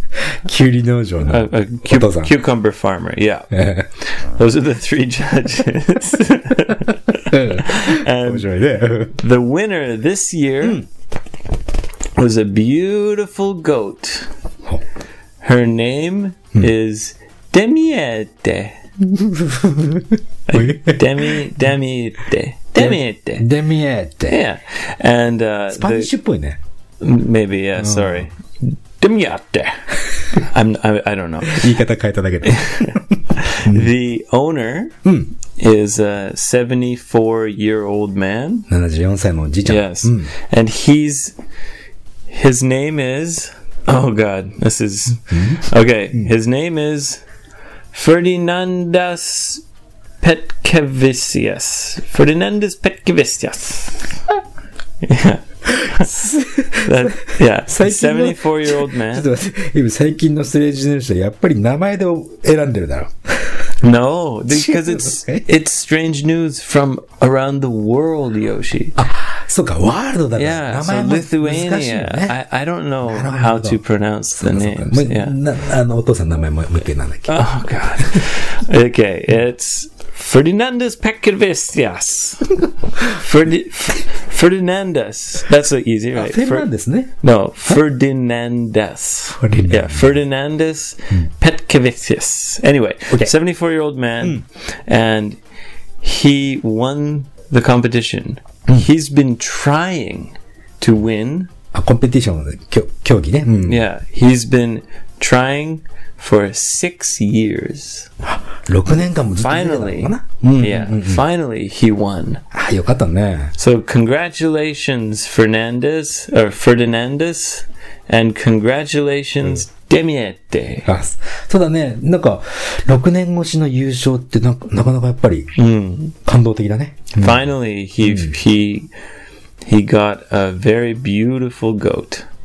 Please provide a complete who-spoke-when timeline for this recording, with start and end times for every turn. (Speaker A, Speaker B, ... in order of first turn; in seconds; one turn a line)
Speaker A: 0.4-2.3
Speaker B: 1.2-8.5
Speaker A: 3.5-3.9
Speaker A: 7.2-9.2
Speaker B: 9.1-10.8
Speaker B: 12.2-14.3
Speaker B: 15.4-18.8
Speaker A: 19.0-21.4
Speaker B: 20.5-23.4
Speaker A: 22.7-24.4
Speaker B: 24.3-26.1
Speaker A: 25.7-26.6
Speaker B: 27.0-31.7
Speaker A: 27.8-28.3
Speaker A: 31.5-33.9
Speaker B: 32.5-35.0
Speaker A: 35.0-35.3
Speaker B: 35.5-38.7
Speaker A: 38.7-40.3
Speaker B: 39.6-41.3
Speaker B: 42.3-47.2
Speaker A: 45.3-45.6
Speaker B: 47.9-49.6
Speaker B: 50.2-54.2
Speaker B: 55.0-56.1
Speaker A: 55.6-63.7
Speaker B: 56.9-59.3
Speaker B: 63.8-69.0
Speaker A: 64.5-65.5
Speaker A: 69.0-72.3
Speaker B: 70.3-75.3
Speaker A: 73.0-73.8
Speaker A: 74.4-78.2
Speaker B: 77.3-82.6
Speaker B: 83.1-86.7
Speaker A: 86.1-87.1
Speaker B: 87.2-95.4
Speaker A: 89.3-90.2
Speaker B: 96.0-101.5
Speaker A: 101.7-103.9
Speaker B: 103.6-108.1
Speaker A: 108.2-111.2
Speaker B: 109.3-112.4
Speaker A: 112.5-113.5
Speaker B: 113.6-120.9
Speaker A: 120.8-125.5
Speaker B: 125.5-126.1
Speaker A: 126.2-127.5
Speaker B: 127.1-128.9
Speaker A: 128.0-128.3
Speaker B: 129.6-132.2